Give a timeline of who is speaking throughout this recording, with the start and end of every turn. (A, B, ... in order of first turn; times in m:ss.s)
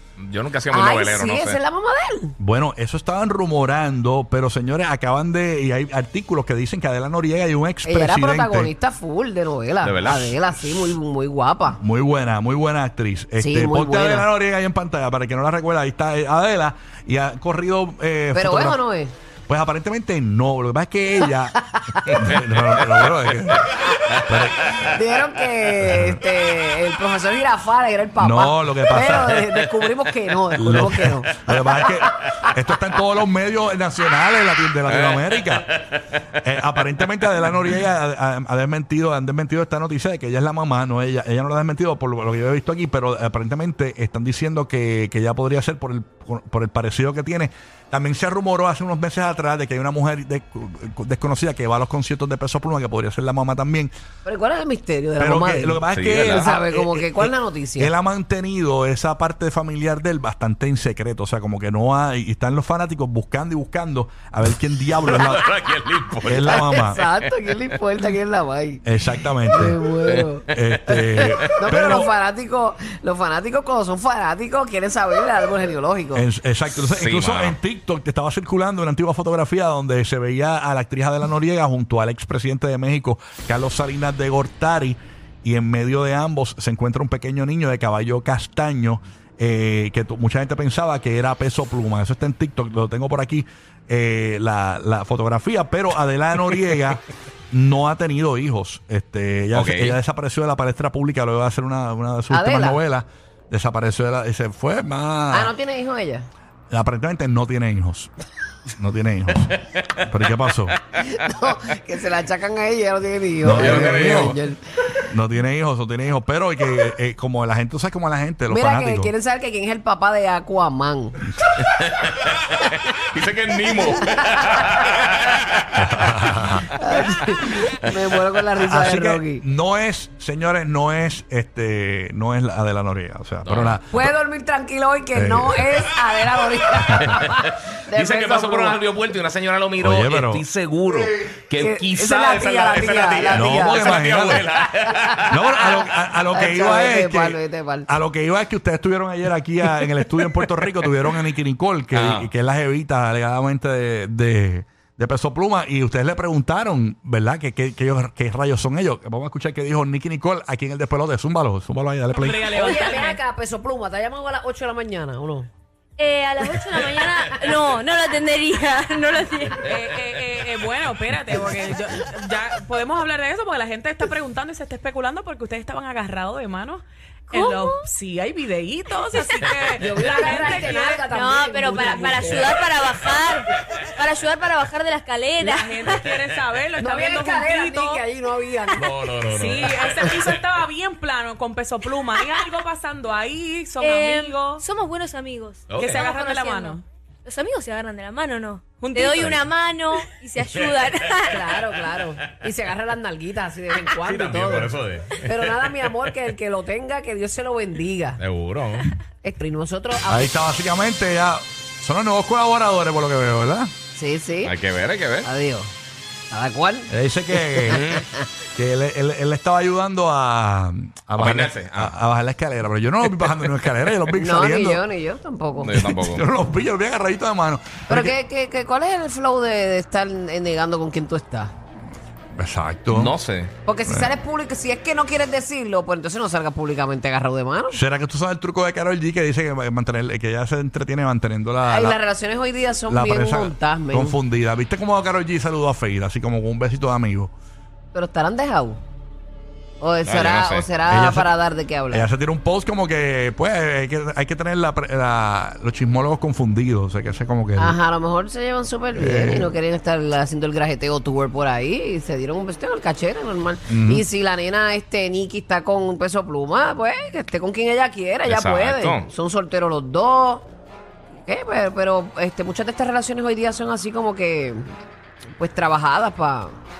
0:00.2-0:01.6 A
0:00.7-0:02.4 B
0:02.4-0:08.7 C
0:07.8-0:11.8 B
0:09.8-0:10.9 A
0:11.8-0:18.8 C
0:13.4-0:14.3 B
0:18.4-0:19.1 B
0:19.5-0:21.6 C
0:22.1-0:24.7 C
0:24.1-0:24.7 A
0:24.9-0:32.5 B
0:28.2-0:29.5 C
0:30.6-0:35.7 C
0:34.9-0:36.2 A
0:36.4-0:53.9 C
0:54.2-0:57.9 B
0:55.2-1:05.5 C
0:55.9-0:56.5 A
1:05.0-1:07.8 A
1:06.2-1:07.0 C
1:06.5-1:08.9 B
1:08.8-1:09.8 C
1:09.5-1:16.3 B
1:10.1-1:10.6 A
1:10.5-1:12.1 C
1:16.1-1:45.5 C
1:16.8-1:17.6 A
1:39.5-1:40.0 A
1:42.3-1:42.8 B
1:45.3-1:46.3 B
1:46.7-1:48.1 C
1:48.8-1:50.8 C
1:51.0-1:55.0 B
1:53.4-1:54.4 C
1:53.6-1:54.4 A
1:55.1-1:59.1 C
1:58.5-2:01.2 B
2:01.6-2:06.6 A
2:05.8-2:06.7 C
2:06.8-2:09.4 B
2:08.6-2:14.1 C
2:13.4-2:13.8 A
2:13.9-2:18.8 B
2:15.1-2:15.7 C
2:17.0-2:25.6 A
2:19.8-2:20.4 C
2:21.6-2:25.8 B
2:23.3-2:24.5 C
2:25.3-2:42.8 C
2:26.3-2:27.9 B
2:31.9-2:32.3 A
2:42.1-2:43.2 D
2:42.5-2:45.5 B
2:46.0-2:49.7 E
2:49.6-3:01.0 D
2:57.3-2:57.8 E
2:59.1-2:59.5 E
2:59.8-3:02.7 B
3:01.0-3:06.0 E
3:01.8-3:02.4 D
3:05.4-3:08.0 D
3:06.8-3:09.1 B
3:08.8-3:10.4 A
3:09.2-3:14.6 D
3:13.8-3:21.5 E
3:15.7-3:16.1 A
3:15.8-3:16.8 D
3:18.8-3:19.5 D
3:20.5-3:21.6 A
3:21.3-3:28.2 B
3:23.7-3:26.1 A
3:28.2-3:28.9 A
3:29.2-3:30.3 B
3:30.1-3:33.7 C
3:34.0-3:34.6 B
3:34.4-3:35.3 A
3:35.2-3:35.7 B
3:36.3-3:36.9 B
3:36.9-3:38.0 C
3:37.7-3:38.2 B
3:37.7-3:38.0 A
3:38.6-3:44.8 C
3:41.2-3:42.0 A
3:44.2-3:45.7 B
3:45.6-3:46.2 A
3:45.7-3:48.1 C
3:47.9-3:51.5 B
3:52.3-3:53.2 C
3:52.9-3:53.5 A
3:53.6-3:57.8 B
3:57.7-4:02.0 C
4:01.7-4:04.2 B
4:02.9-4:07.3 C
4:07.9-4:08.8 B
4:09.8-4:12.1 B
4:10.0-4:10.7 A
4:10.9-4:11.3 C
4:11.9-4:17.8 C
4:17.6-4:30.5 B
4:19.0-4:19.5 C
4:23.7-4:24.0 C
4:28.2-4:29.1 A
4:31.2-4:34.6 B
4:35.4-4:36.6 B